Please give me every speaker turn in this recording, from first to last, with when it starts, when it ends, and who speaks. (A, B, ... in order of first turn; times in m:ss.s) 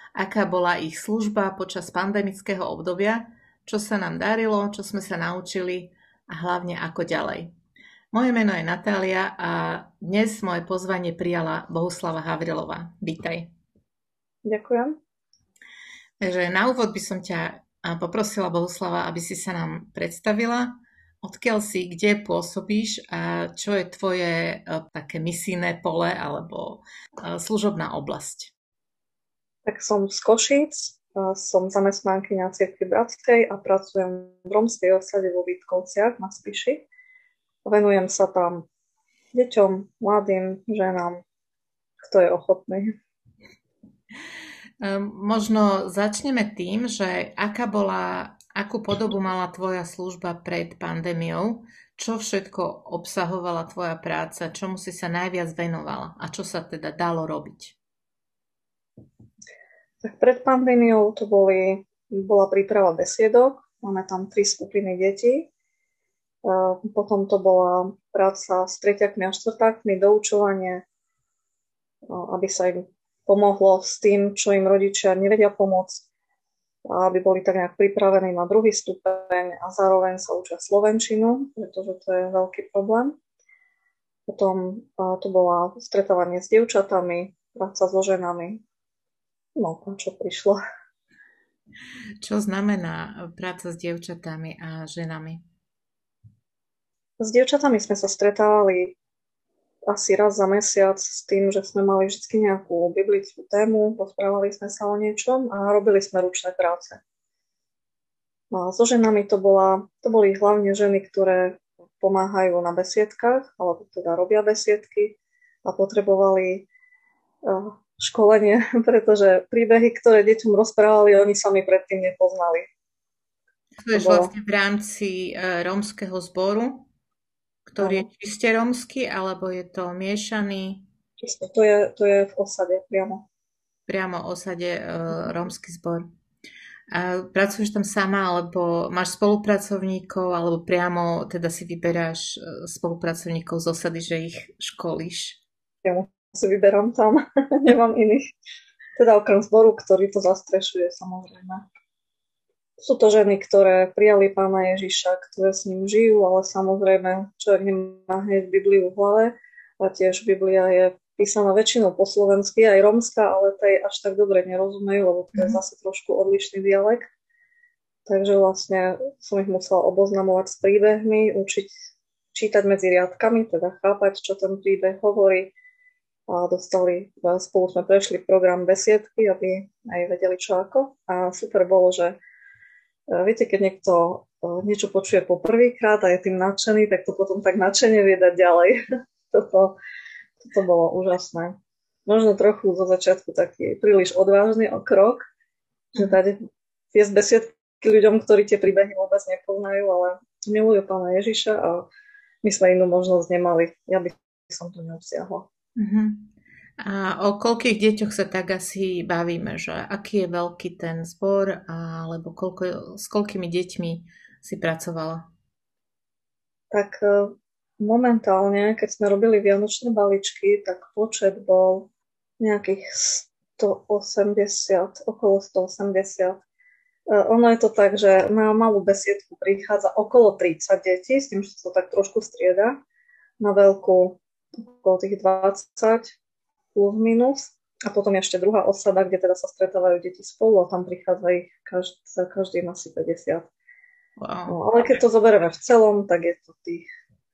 0:00.2-0:07.5 A
0:08.1-0:13.5 A
0:14.4-0:15.0 B
0:16.2-0:28.5 A
0:29.6-0:36.8 B
0:37.6-0:38.6 B
0:39.3-0:41.2 B
0:42.0-0:43.0 B
0:44.8-0:57.8 A
1:00.0-1:05.5 B
1:06.4-1:10.8 B
1:12.1-1:16.0 B
1:16.8-1:23.2 B
1:24.3-1:28.6 B
1:29.6-1:30.6 B
1:32.2-1:35.4 A
1:37.2-1:39.0 B
1:39.9-1:47.0 B
1:48.5-1:56.7 B
1:57.4-2:02.7 B
2:03.8-2:06.9 A
2:03.9-2:04.3 B
2:07.7-2:10.8 A
2:07.8-2:08.1 B
2:11.2-2:13.3 B
2:13.9-2:16.0 A
2:16.9-2:25.4 A
2:25.8-2:28.2 B
2:29.0-2:31.7 B
2:32.8-2:47.0 B
2:45.3-2:45.6 A
2:48.0-2:51.7 B
2:52.3-2:55.5 B
2:56.3-3:02.2 B
3:03.1-3:09.8 B
3:10.4-3:15.2 B
3:15.9-3:16.4 B
3:16.9-3:21.9 B
3:22.4-3:25.5 B
3:25.8-3:35.2 A
3:36.7-3:41.9 B
3:42.4-3:46.4 B
3:47.1-3:52.8 B
3:53.4-3:56.2 B
3:56.7-4:03.5 B
4:04.2-4:04.6 A
4:04.5-4:06.8 B